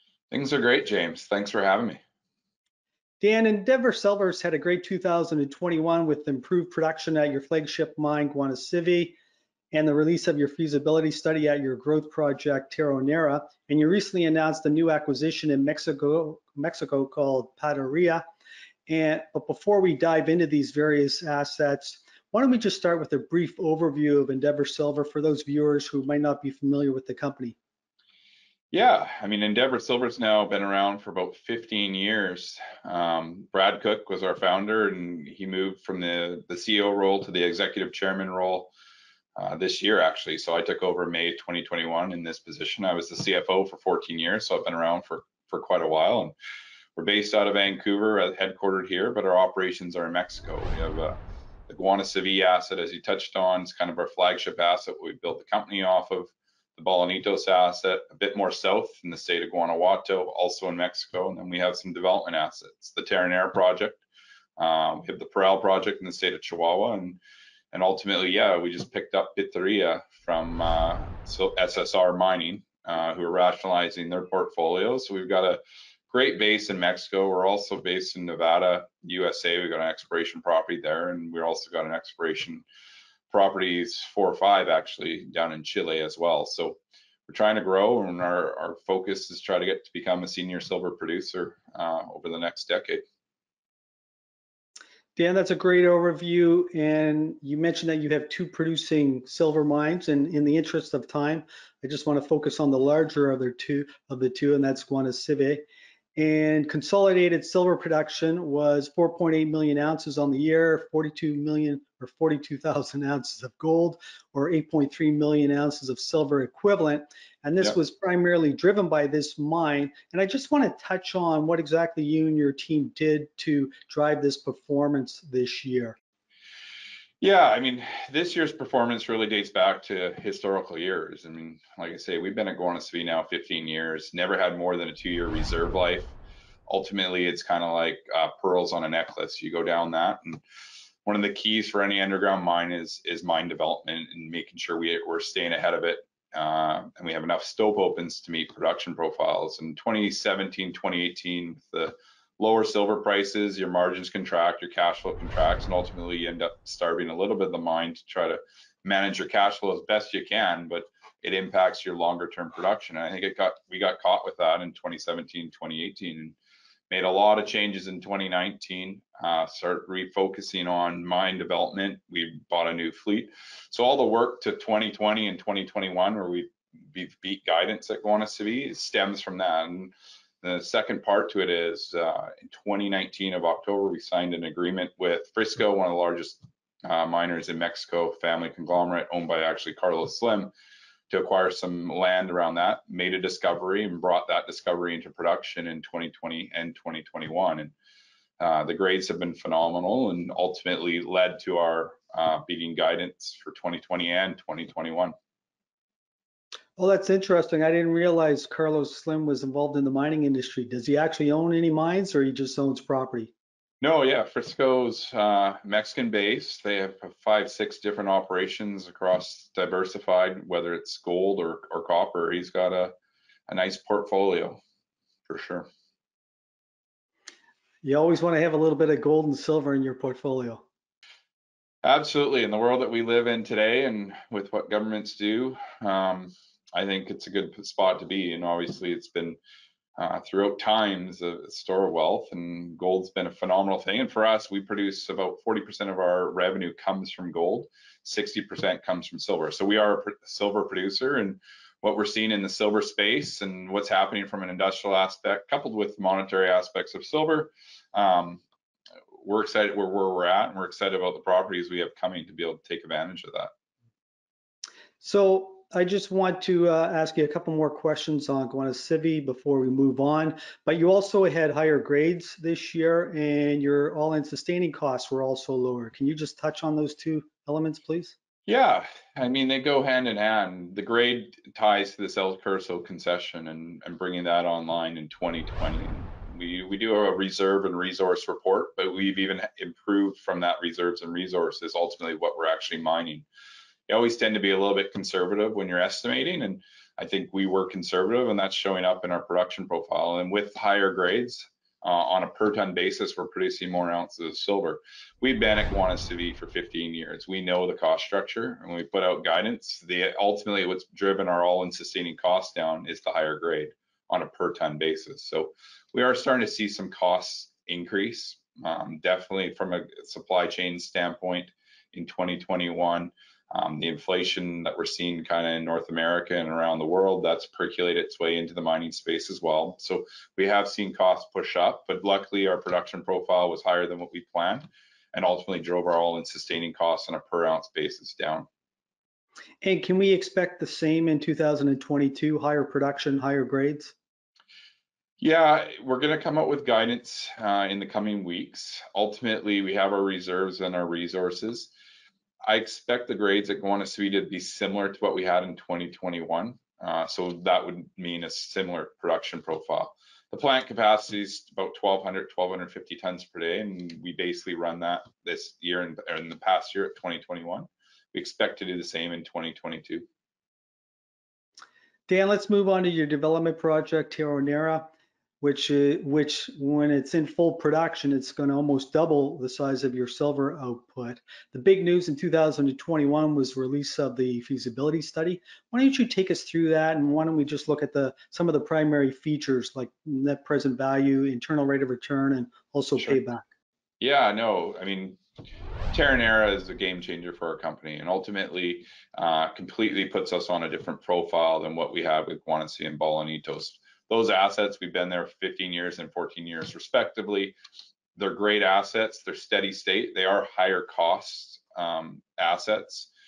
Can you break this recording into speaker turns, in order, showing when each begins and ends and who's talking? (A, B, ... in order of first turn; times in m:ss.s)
0:00.3-0:02.0 A
0:03.2-0:09.2 B
0:09.7-0:18.2 B
0:18.9-0:27.6 B
0:28.7-0:38.7 A
0:39.4-0:46.4 A
0:47.0-0:51.2 A
0:51.7-1:04.0 A
1:04.6-1:07.2 A
1:07.7-1:22.6 A
1:23.3-1:33.0 A
1:35.2-1:45.6 B
1:46.2-2:06.0 B
2:07.2-2:16.2 A
2:16.7-2:20.4 A
2:21.1-2:46.4 A
2:46.9-3:10.5 A
3:11.1-3:17.7 A
3:18.4-3:25.1 A
3:26.8-3:33.3 B
3:33.8-3:42.9 A
3:43.5-3:44.6 A
3:45.3-3:45.7 A
3:47.8-3:50.6 B
3:51.8-3:59.4 A
4:00.0-4:18.4 A
4:19.2-4:23.5 A
4:25.0-4:38.2 B
4:38.5-4:53.3 A
4:53.9-5:38.5 A
5:39.6-5:44.0 B
5:45.2-5:51.7 A
5:52.5-6:10.0 A
6:12.1-6:33.4 B
6:34.0-6:35.2 A
6:35.9-6:47.6 A
6:48.2-6:53.1 A